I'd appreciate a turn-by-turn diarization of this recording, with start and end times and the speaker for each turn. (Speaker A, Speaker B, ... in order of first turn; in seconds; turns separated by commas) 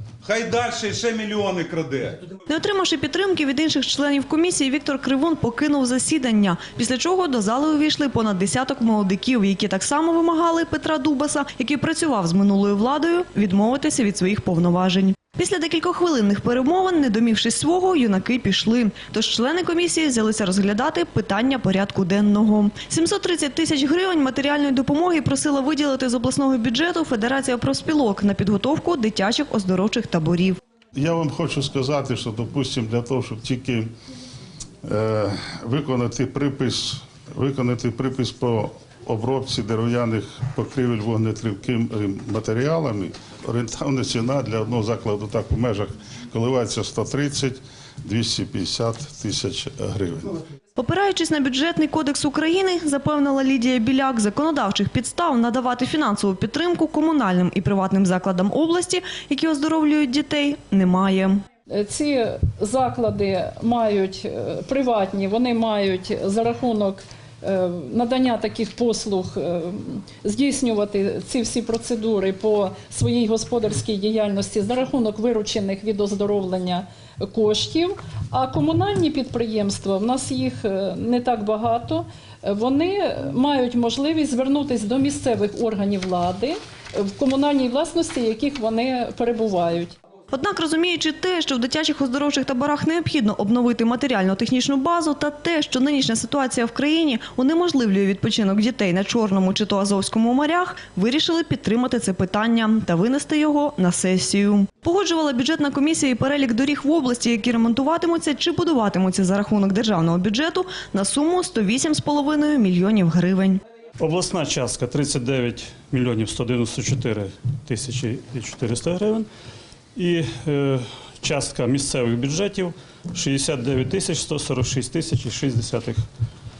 Speaker A: 0.2-2.2, Speaker B: 2.5-30.6, Speaker C: 30.9-33.9, Speaker C: 34.8-50.4, Speaker B: 50.8-61.4, Speaker D: 61.7-89.9, Speaker B: 90.3-113.6, Speaker E: 114.0-119.3, Speaker E: 120.0-126.0